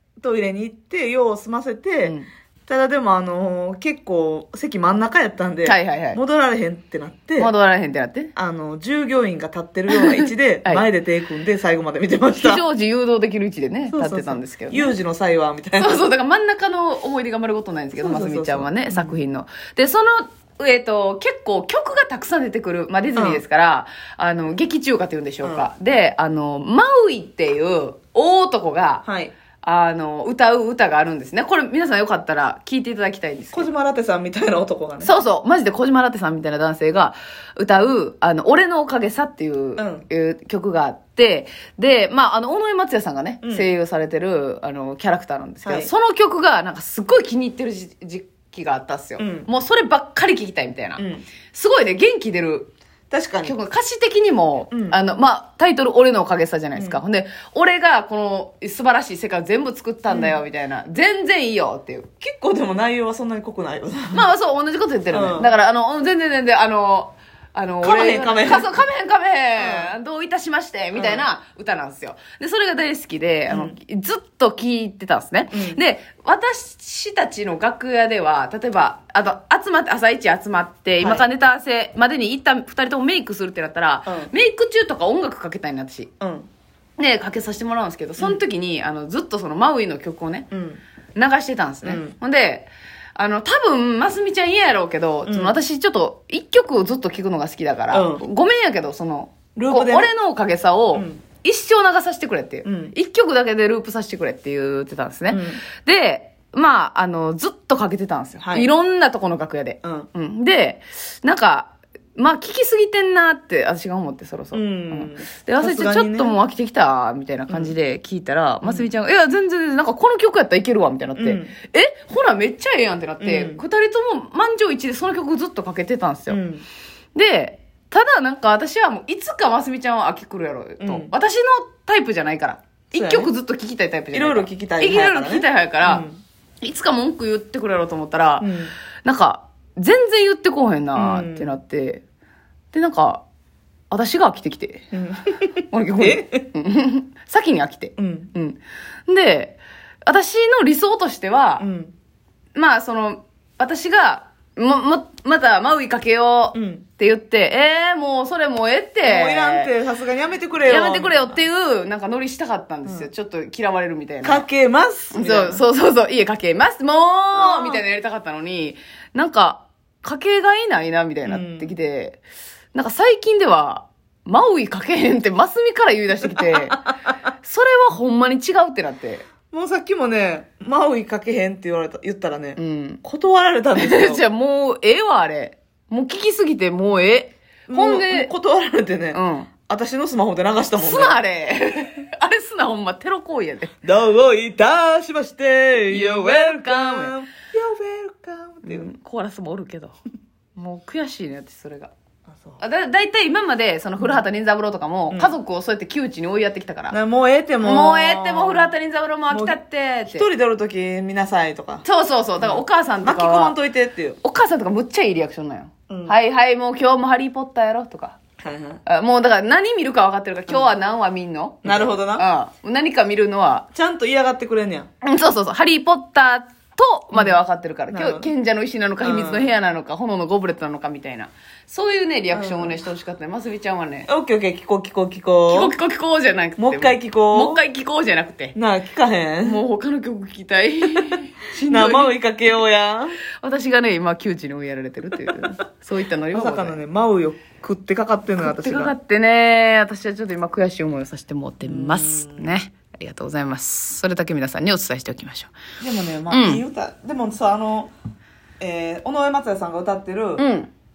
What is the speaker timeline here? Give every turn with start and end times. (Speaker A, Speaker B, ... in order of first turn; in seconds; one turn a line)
Speaker A: 0.2-2.2
Speaker A: 2.7-7.5
Speaker B: 5.7-6.2
Speaker B: 7.4-8.3
Speaker A: 8.4-12.6
Speaker B: 9.9-10.8
Speaker B: 12.3-14.9
Speaker A: 13.9-16.0
Speaker B: 15.8-29.1
Speaker A: 18.0-19.2
Speaker A: 23.2-23.4
Speaker A: 25.4-25.7
Speaker A: 29.1-29.4
Speaker B: 29.6-33.7
Speaker A: 33.5-35.1
Speaker B: 35.0-52.7
Speaker A: 39.8-40.0
Speaker A: 43.4-43.7
Speaker A: 45.6-45.9
Speaker A: 49.2-49.5
Speaker A: 51.0-51.2
Speaker A: 53.1-53.5
Speaker B: 53.4-62.1
Speaker A: 54.7-55.0
Speaker A: 56.8-57.0
Speaker A: 60.1-60.4
Speaker A: 62.2-64.3
Speaker B: 64.1-86.1
Speaker A: 65.1-65.5
Speaker A: 67.8-68.7
Speaker A: 69.6-69.9
Speaker A: 71.0-71.3
Speaker A: 73.5-73.8
Speaker A: 75.5-75.8
Speaker A: 81.0-81.3
Speaker A: 84.1-84.3
Speaker A: 86.2-86.5
Speaker B: 87.0-90.5
Speaker A: 90.5-90.8
Speaker B: 91.2-126.4
Speaker A: 91.8-92.2
Speaker A: 95.3-95.6
Speaker A: 97.9-98.2
Speaker A: 99.6-100.1
Speaker A: 100.9-101.2
Speaker A: 102.6-102.9
Speaker A: 105.3-105.6
Speaker A: 108.4-108.7
Speaker A: 109.8-110.1
Speaker A: 114.5-116.4
Speaker A: 117.5-117.8
Speaker A: 118.6-118.9
Speaker A: 121.2-121.5
Speaker A: 123.2-123.6
Speaker A: 126.3-126.7
Speaker B: 127.2-136.1
Speaker A: 130.8-131.1
Speaker A: 132.9-133.3
Speaker A: 134.1-136.2
Speaker B: 136.6-138.5
Speaker A: 138.4-138.7
Speaker B: 139.1-142.0
Speaker A: 140.9-141.5
Speaker B: 142.7-143.2
Speaker B: 143.9-144.9
Speaker A: 144.9-146.5
Speaker B: 145.7-151.7
Speaker A: 148.0-148.3
Speaker A: 151.6-151.9
Speaker B: 152.6-159.7
Speaker A: 156.5-156.8
Speaker A: 159.0-161.4
Speaker B: 160.7-164.4
Speaker A: 162.8-163.1
Speaker A: 164.2-165.6
Speaker B: 165.1-172.2
Speaker A: 167.3-167.8
Speaker A: 171.2-171.7
Speaker B: 172.7-176.8
Speaker A: 176.3-176.9
Speaker B: 177.4-179.2
Speaker A: 179.5-184.2
Speaker B: 182.6-183.0
Speaker B: 183.8-188.3
Speaker A: 187.7-191.2
Speaker B: 189.1-189.5
Speaker B: 190.8-193.7
Speaker A: 193.8-198.9
Speaker B: 195.9-197.1
Speaker B: 198.6-199.9
Speaker B: 200.6-201.9
Speaker A: 202.3-202.6
Speaker B: 202.6-207.0
Speaker A: 205.1-205.3
Speaker A: 206.9-208.7
Speaker B: 207.6-210.3
Speaker A: 209.3-209.6
Speaker A: 210.1-211.8
Speaker B: 211.8-213.6
Speaker A: 212.4-214.2
Speaker B: 214.2-218.2
Speaker A: 215.9-216.2
Speaker A: 218.4-218.8
Speaker B: 218.9-223.7
Speaker A: 221.7-222.2
Speaker A: 223.7-224.9
Speaker B: 225.0-234.1
Speaker A: 227.1-227.4
Speaker A: 227.9-228.3
Speaker A: 229.0-229.5
Speaker A: 232.3-232.9
Speaker A: 234.1-235.8
Speaker B: 235.5-238.6
Speaker A: 236.6-237.6
Speaker A: 238.6-239.6
Speaker B: 239.4-242.2
Speaker A: 241.7-243.2
Speaker B: 243.4-246.8
Speaker A: 246.3-248.9
Speaker B: 248.4-255.6
Speaker A: 251.6-252.5
Speaker A: 255.8-257.9
Speaker B: 256.3-256.6
Speaker A: 258.6-260.4
Speaker B: 260.4-260.7